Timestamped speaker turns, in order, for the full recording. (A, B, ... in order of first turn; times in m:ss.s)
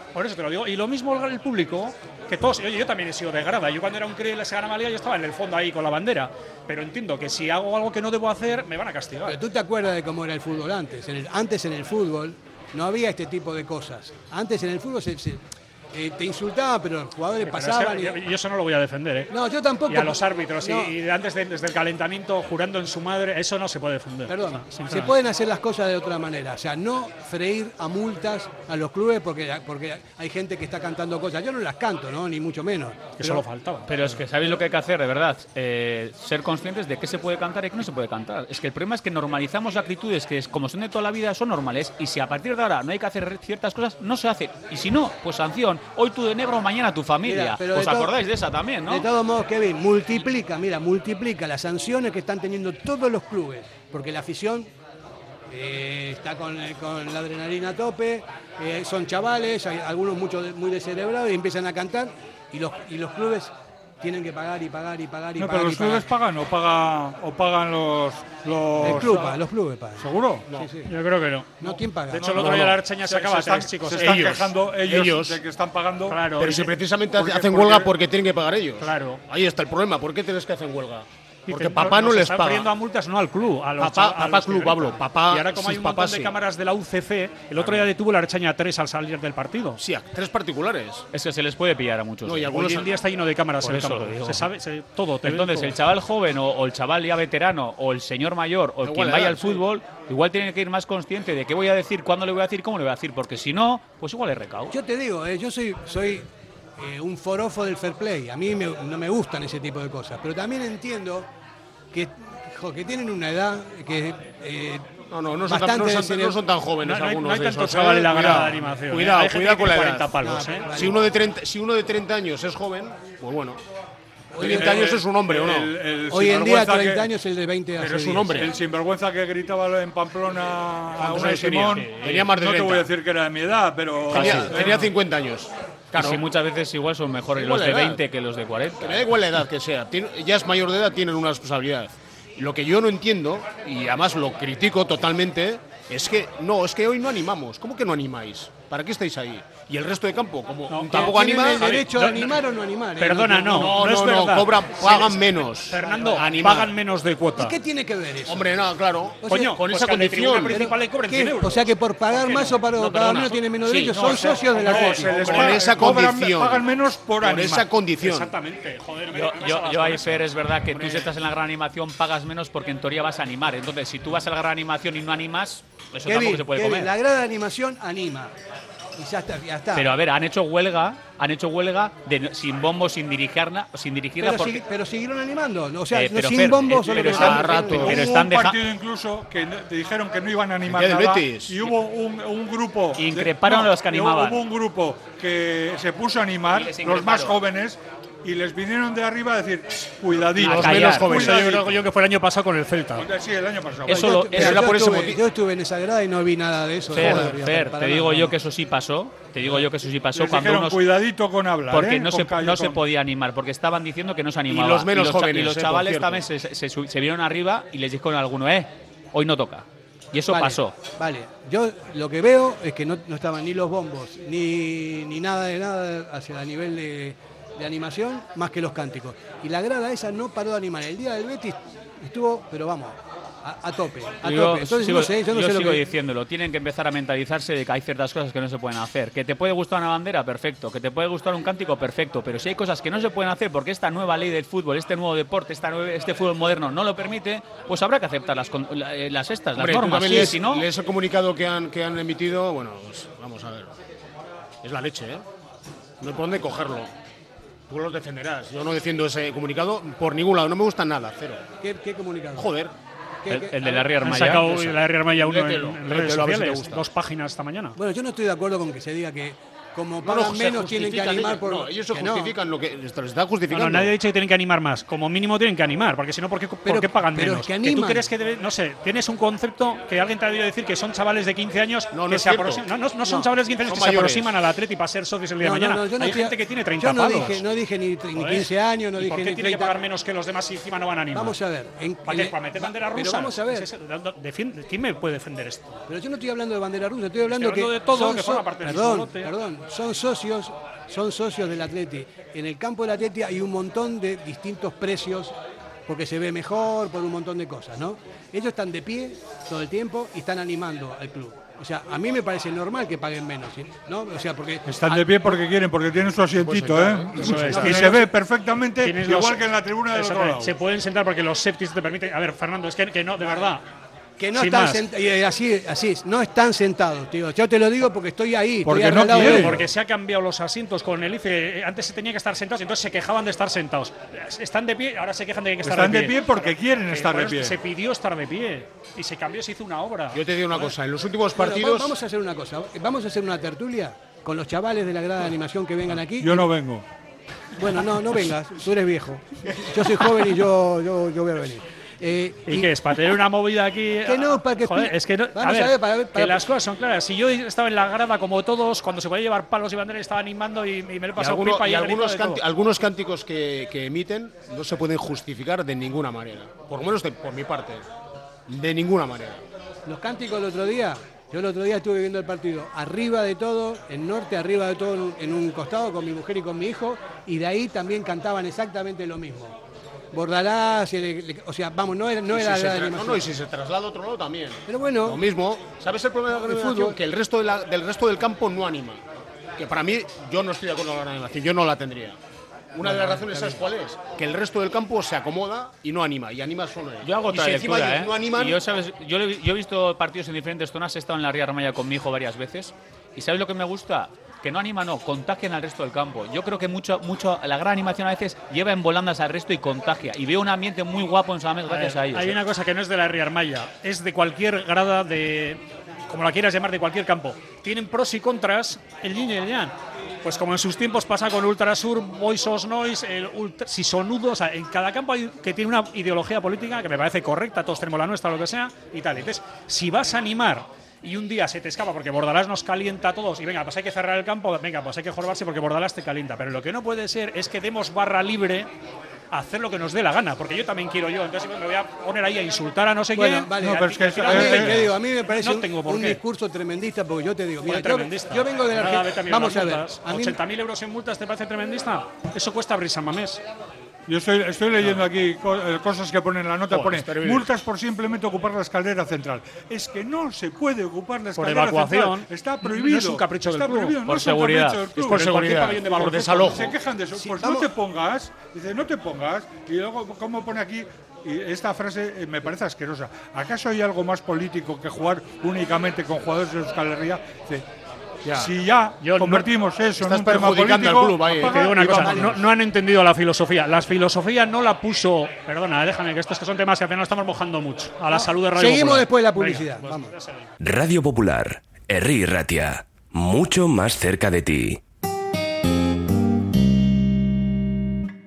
0:00.1-0:09.4 A
0:09.2-0:18.2 B
0:17.4-0:19.3 A
0:19.3-0:20.9 B
0:19.9-0:25.1 A
0:24.3-0:33.4 B
0:33.2-0:34.2 A
0:33.9-0:49.1 C
0:47.2-0:48.1 B
0:48.9-0:54.7 B
0:55.5-1:06.1 B
1:05.4-1:09.4 D
1:08.8-1:10.9 B
1:10.0-1:10.5 D
1:10.8-1:14.3 A
1:11.6-1:12.5 B
1:12.1-1:16.3 D
1:12.4-1:12.8 E
1:13.9-1:15.4 E
1:16.1-1:16.7 A
1:16.4-1:22.7 E
1:17.1-1:17.9 D
1:18.8-1:19.2 A
1:21.5-1:29.8 A
1:23.8-1:26.4 E
1:29.8-1:31.1 E
1:31.1-1:32.5 C
1:32.2-1:33.0 E
1:32.5-1:35.8 A
1:33.6-1:34.5 C
1:35.2-1:44.8 C
1:38.8-1:39.6 E
1:44.7-1:51.3 B
1:51.9-1:54.9 B
1:55.1-2:03.6 E
1:55.4-1:56.4 B
1:56.8-2:00.7 A
2:00.2-2:01.0 B
2:04.3-2:04.8 B
2:04.4-2:05.7 E
2:04.4-2:07.1 D
2:06.1-2:08.4 B
2:07.8-2:08.6 E
2:08.4-2:14.9 D
2:11.0-2:12.9 E
2:14.1-2:16.2 E
2:14.1-2:14.6 C
2:15.9-2:19.1 C
2:17.3-2:18.0 E
2:18.8-2:31.7 E
2:30.7-2:32.4 A
2:30.9-2:33.8 B
2:33.0-2:37.6 A
2:33.5-2:36.7 E
2:37.4-2:38.5 B
2:38.2-2:40.7 E
2:39.2-2:39.6 B
2:39.3-2:42.6 A
2:40.5-2:45.5 B
2:42.8-2:43.3 E
2:43.7-2:47.6 D
2:44.1-2:45.6 A
2:45.2-2:46.7 E
2:47.2-2:48.3 E
2:48.0-2:51.1 A
2:49.1-2:56.9 C
2:56.0-2:58.3 B
2:59.0-2:59.9 B
2:59.7-3:04.6 C
3:04.2-3:08.0 B
3:05.9-3:08.6 C
3:06.8-3:21.7 D
3:07.1-3:08.0 E
3:10.6-3:11.7 E
3:13.0-3:14.4 C
3:16.5-3:17.4 C
3:20.4-3:21.8 E
3:20.4-3:21.1 C
3:20.9-3:23.1 A
3:23.0-3:24.2 D
3:23.8-3:24.8 C
3:23.9-3:28.4 B
3:24.3-3:25.2 E
3:26.9-3:30.9 C
3:26.9-3:27.3 E
3:30.1-3:32.8 D
3:31.7-3:40.7 C
3:34.5-3:36.2 E
3:40.3-3:55.8 B
3:54.2-4:10.7 C
4:09.5-4:13.7 E
4:14.6-4:15.2 E
4:16.0-4:16.9 E
4:17.7-4:21.4 E
4:21.6-4:22.5 B
4:22.3-4:22.7 E
4:23.2-4:23.9 B
4:23.3-4:24.8 C
4:24.0-4:27.8 A
4:25.1-4:26.8 E
4:27.8-4:32.4 B
4:30.0-4:33.9 E
4:33.5-4:47.4 A
4:36.6-4:38.1 B
4:41.9-4:42.7 E
4:43.6-4:44.3 E
4:45.4-4:49.8 B
4:48.1-4:51.4 A
4:51.1-4:53.7 B
4:52.0-4:55.8 A
4:55.9-5:05.3 B
4:57.3-4:59.3 A
5:05.9-5:15.4 B
5:14.6-5:20.6 D
5:16.4-5:17.9 E
5:17.2-5:18.0 A
5:17.5-5:18.1 B
5:18.8-5:23.6 A
5:24.2-5:29.6 B
5:24.3-5:24.8 A
5:28.6-5:29.6 D
5:29.1-5:40.2 A
5:35.6-5:37.6 D
5:40.1-5:41.9 E
5:41.3-5:46.5 B
5:46.2-5:46.8 D
5:47.6-5:52.7 B
5:52.5-6:02.4 A
5:54.0-5:56.4 B
6:01.2-6:07.8 E
6:08.5-6:09.4 E
6:09.8-6:19.6 B
6:20.1-6:23.3 B
6:22.3-6:29.0 E
6:24.7-6:25.2 B
6:26.3-6:27.0 B
6:29.6-6:32.2 E
6:32.7-6:38.6 E
6:32.8-6:33.6 B
6:37.0-6:52.4 C
6:51.7-7:18.7 A
7:19.3-7:26.2 A
7:23.1-7:30.4 B
7:23.6-7:24.9 D
7:27.6-7:33.4 A
7:34.1-7:45.4 D
7:36.7-7:37.5 E
7:41.4-7:44.0 A
7:44.0-7:44.8 C
7:45.0-7:46.8 E
7:45.1-7:46.6 A
7:46.1-7:57.6 D
7:47.2-7:47.7 B
7:58.2-7:58.5 E
7:58.3-8:02.3 D
7:59.0-7:59.5 A
8:00.0-8:02.0 E
8:01.3-8:10.5 A
8:01.8-8:02.4 B
8:08.1-8:10.1 B
8:10.6-8:14.8 F